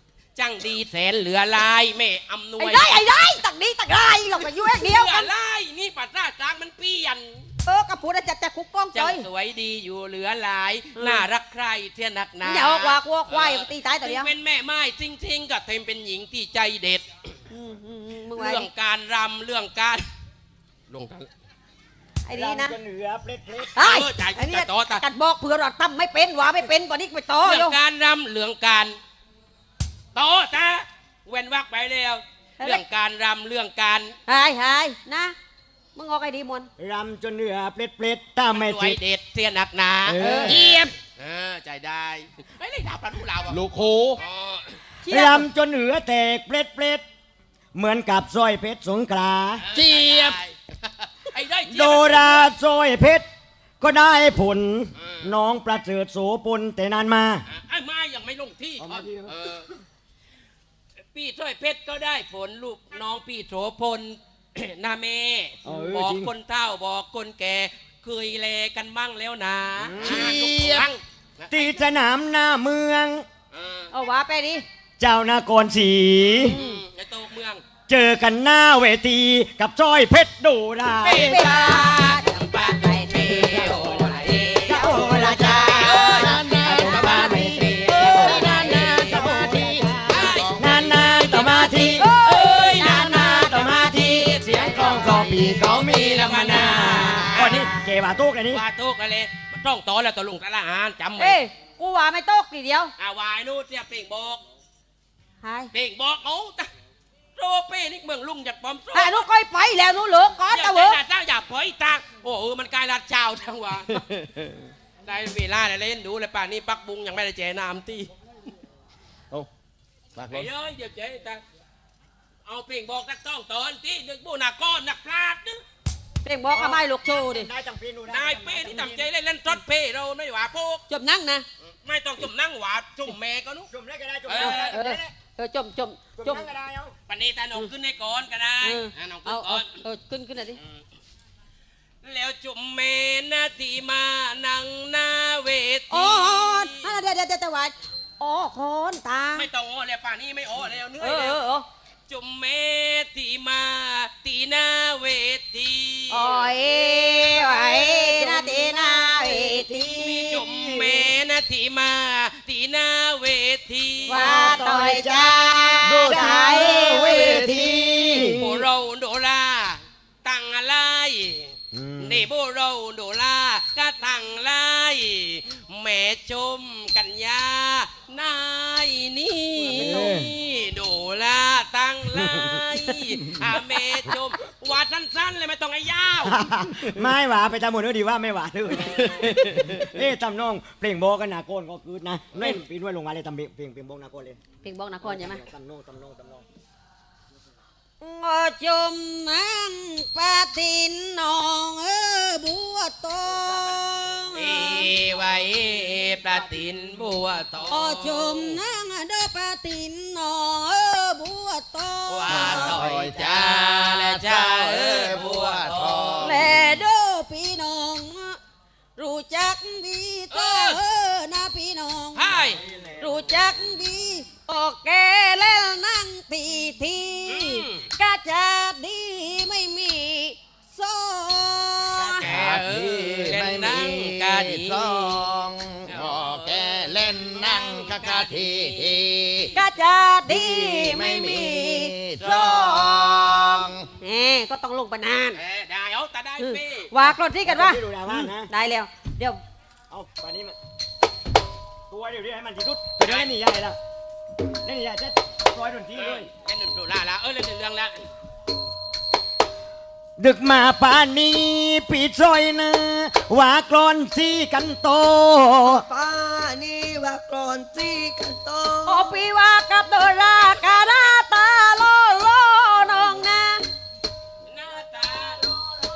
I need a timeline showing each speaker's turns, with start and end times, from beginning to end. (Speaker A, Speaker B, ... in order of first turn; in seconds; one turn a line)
Speaker A: 0.4-3.0
Speaker B: 2.6-5.3
Speaker A: 4.5-7.5
Speaker B: 7.7-9.3
Speaker A: 8.9-17.4
Speaker B: 11.0-11.3
Speaker B: 12.4-14.3
Speaker B: 17.5-18.7
Speaker A: 18.4-20.1
Speaker A: 20.9-21.3
Speaker B: 22.3-22.8
Speaker C: 22.3-23.7
Speaker B: 23.8-27.8
Speaker A: 23.8-25.0
Speaker A: 27.4-28.9
Speaker A: 30.1-34.2
Speaker B: 34.3-35.4
Speaker B: 36.0-36.7
Speaker C: 36.8-39.0
Speaker A: 38.5-43.6
Speaker C: 40.1-40.6
Speaker B: 40.2-40.9
Speaker D: 43.5-44.2
Speaker A: 44.2-44.8
Speaker B: 45.1-45.5
Speaker C: 45.1-47.0
Speaker C: 47.8-49.6
Speaker A: 49.6-50.6
Speaker D: 49.7-50.4
Speaker A: 51.2-52.5
Speaker C: 51.7-53.3
Speaker C: 53.8-57.4
Speaker A: 57.5-59.7
Speaker C: 58.8-59.3
Speaker A: 61.1-71.8
Speaker C: 65.6-66.3
Speaker C: 69.8-70.3
Speaker D: 70.0-70.9
Speaker C: 71.5-73.3
Speaker A: 73.5-73.9
Speaker B: 73.9-74.6
Speaker C: 75.0-76.6
Speaker B: 76.4-76.8
Speaker A: 76.4-77.6
Speaker C: 77.9-81.5
Speaker A: 81.0-84.9
Speaker B: 81.0-89.2
Speaker C: 84.7-85.6
Speaker D: 85.4-91.2
Speaker A: 85.5-89.2
Speaker C: 86.7-92.1
Speaker A: 90.1-90.6
Speaker B: 91.2-95.3
Speaker A: 92.0-97.7
Speaker C: 92.7-98.6
Speaker B: 96.7-97.7
Speaker A: 98.5-101.4
Speaker B: 101.2-102.9
Speaker A: 103.0-104.4
Speaker B: 105.4-105.7
Speaker A: 105.7-106.7
Speaker A: 107.4-109.2
Speaker B: 108.9-111.0
Speaker A: 110.5-114.0
Speaker D: 114.0-114.4
Speaker A: 115.0-118.1
Speaker D: 120.2-120.5
Speaker A: 120.3-121.4
Speaker A: 122.5-125.6
Speaker B: 126.2-127.5
Speaker A: 126.5-126.8
Speaker C: 127.1-129.1
Speaker A: 128.1-130.8
Speaker B: 130.9-131.4
Speaker A: 131.8-133.7
Speaker C: 133.7-135.1
Speaker A: 134.3-134.8
Speaker B: 134.4-136.5
Speaker C: 136.2-136.9
Speaker A: 137.1-139.8
Speaker B: 138.6-140.6
Speaker A: 142.0-146.8
Speaker B: 145.9-149.5
Speaker A: 149.3-151.4
Speaker B: 151.0-151.7
Speaker A: 152.1-156.3
Speaker B: 156.1-160.5
Speaker A: 159.9-164.5
Speaker B: 164.1-168.2
Speaker C: 164.1-168.6
Speaker D: 165.8-168.3
Speaker A: 168.3-186.4
Speaker C: 171.7-172.2
Speaker B: 179.6-180.1
Speaker C: 179.7-180.3
Speaker C: 182.2-182.6
Speaker C: 186.3-194.4
Speaker B: 194.6-195.4
Speaker C: 195.0-196.4
Speaker B: 198.0-204.9
Speaker A: 204.3-208.2
Speaker B: 207.7-212.5
Speaker A: 212.1-216.4
Speaker D: 212.3-216.5
Speaker B: 216.2-218.4
Speaker B: 219.0-222.3
Speaker A: 220.3-220.8
Speaker A: 222.2-222.6
Speaker B: 223.0-232.3
Speaker A: 227.3-227.8
Speaker A: 232.0-235.2
Speaker D: 232.1-239.5
Speaker A: 235.9-239.0
Speaker B: 239.6-243.3
Speaker D: 240.3-243.9
Speaker B: 244.0-245.4
Speaker A: 245.3-246.9
Speaker B: 246.4-249.4
Speaker C: 247.4-248.5
Speaker C: 249.9-250.6
Speaker C: 251.9-253.8
Speaker A: 253.0-253.3
Speaker C: 254.6-256.3
Speaker A: 256.0-258.1
Speaker C: 260.2-265.8
Speaker E: 265.6-269.1
Speaker B: 268.9-273.6
Speaker A: 270.4-271.2
Speaker A: 274.5-275.6